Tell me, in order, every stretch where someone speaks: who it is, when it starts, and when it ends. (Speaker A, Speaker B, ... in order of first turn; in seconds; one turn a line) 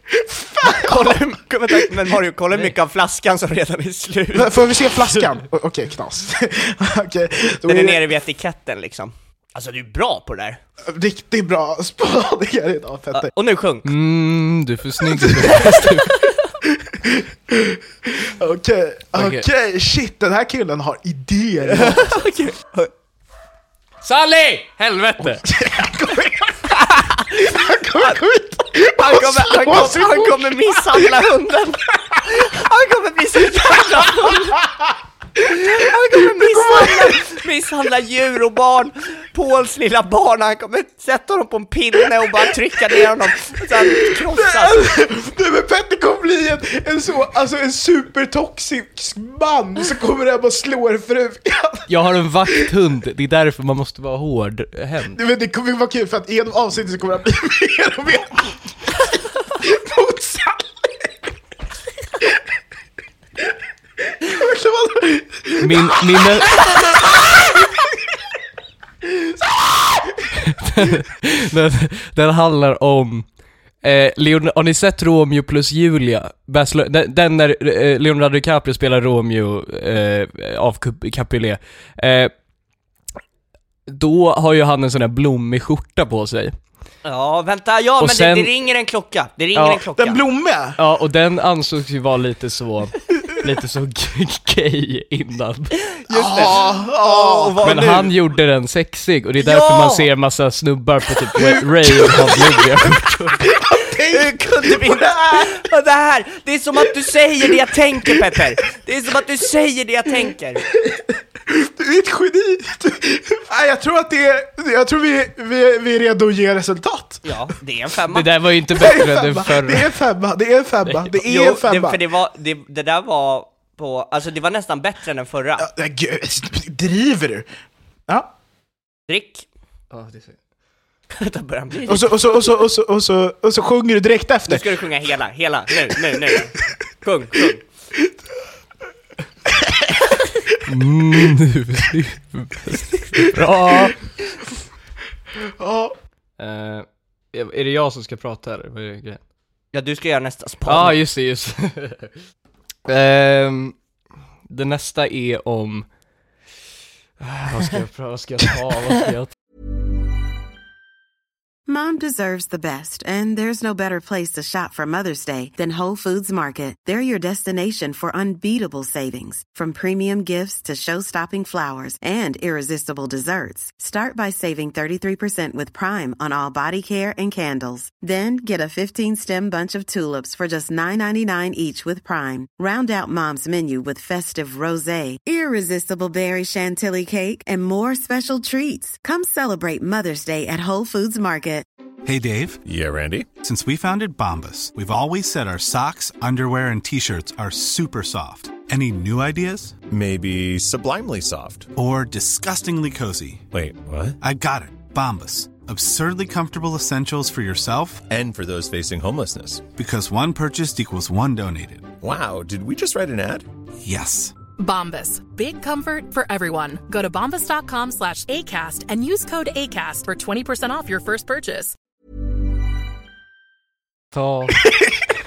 Speaker A: 0.1-1.2
Speaker B: 0.6-4.7
Speaker A: 4.3-8.0
Speaker B: 7.7-10.6
Speaker A: 10.9-13.3
Speaker B: 13.1-13.9
Speaker C: 13.8-16.2
Speaker A: 15.1-15.6
Speaker A: 16.7-22.2
Speaker C: 19.1-19.4
Speaker B: 21.6-22.9
Speaker C: 24.0-25.4
Speaker A: 25.3-31.2
Speaker B: 28.8-34.6
Speaker A: 34.2-34.7
Speaker B: 35.4-44.9
Speaker A: 36.1-37.2
Speaker A: 43.7-51.9
Speaker C: 51.9-55.2
Speaker A: 55.1-61.1
Speaker A: 64.1-67.8
Speaker C: 65.6-66.6
Speaker A: 69.2-70.1
Speaker C: 70.4-73.3
Speaker C: 73.8-82.3
Speaker C: 83.9-86.5
Speaker B: 87.0-90.2
Speaker C: 88.0-88.5
Speaker A: 90.0-90.8
Speaker C: 90.8-95.7
Speaker B: 95.9-98.1
Speaker A: 96.1-97.9
Speaker C: 97.6-103.4
Speaker B: 99.4-100.1
Speaker A: 101.4-102.6
Speaker A: 103.5-105.6
Speaker B: 104.1-110.6
Speaker A: 110.7-117.2
Speaker B: 117.2-118.3
Speaker C: 118.1-119.9
Speaker A: 118.8-122.0
Speaker B: 121.2-125.7
Speaker A: 125.6-127.5
Speaker B: 129.1-129.5
Speaker C: 129.9-130.4
Speaker B: 131.1-132.4
Speaker A: 131.9-134.7
Speaker B: 134.5-137.6
Speaker A: 136.1-136.4
Speaker A: 139.5-139.9
Speaker C: 140.7-143.9
Speaker A: 145.6-145.9
Speaker C: 146.4-149.2
Speaker B: 149.7-150.9
Speaker C: 150.7-152.1
Speaker C: 152.8-153.8
Speaker C: 154.5-155.8
Speaker C: 157.2-159.3
Speaker D: 161.7-191.7
Speaker E: 192.0-192.6
Speaker F: 192.6-193.3
Speaker E: 193.4-199.8
Speaker F: 199.9-201.7
Speaker E: 201.7-203.5
Speaker F: 203.5-204.2
Speaker E: 204.2-208.1
Speaker F: 208.1-209.7
Speaker E: 209.7-211.9
Speaker F: 212.0-213.4
Speaker E: 213.8-214.3
Speaker G: 214.6-221.8
Speaker C: 224.1-224.6